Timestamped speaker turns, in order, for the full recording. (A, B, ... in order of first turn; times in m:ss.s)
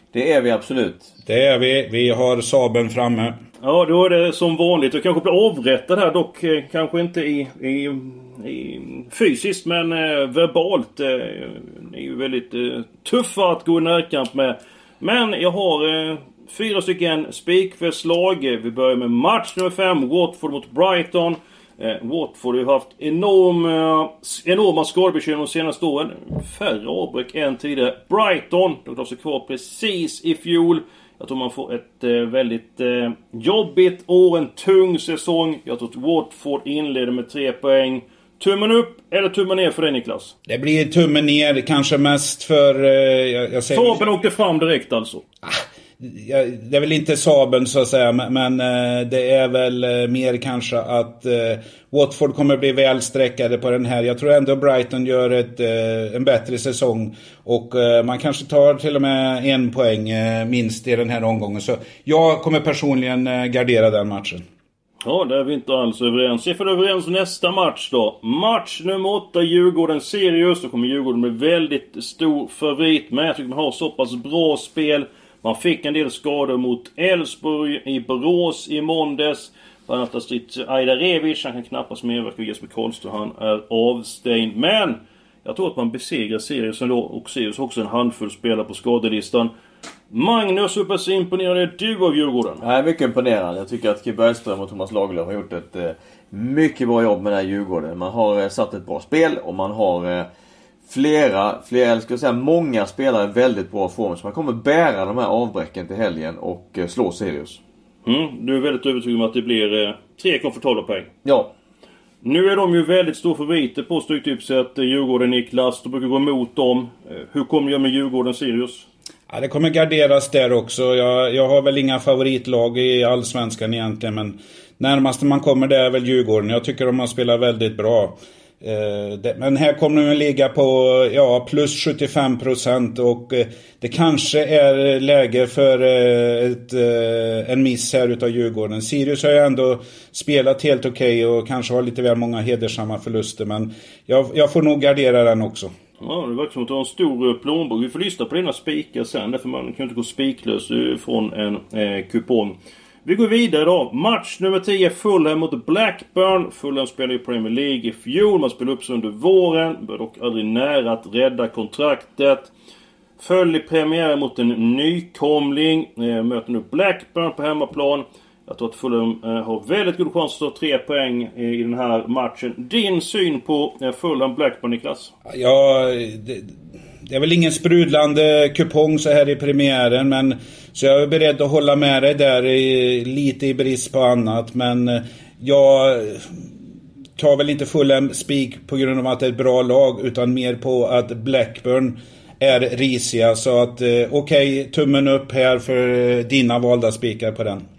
0:00.1-0:01.1 A
0:01.2-0:03.4 B
0:03.6-0:40.3 C
0:40.5-0:44.0 B
0:43.7-0:45.2 C
0:45.4-1:04.4 B
1:05.0-1:29.5 C
1:30.1-1:32.6 C
1:32.6-1:40.3 A
1:40.9-1:47.6 A
1:48.0-1:51.1 C
1:51.2-1:51.5 A
1:52.2-1:58.9 C
1:59.3-2:25.7 B
2:26.0-2:42.5 C
2:43.2-2:55.1 C
2:55.3-2:56.5 B
2:57.0-3:06.4 B
3:07.2-3:17.6 B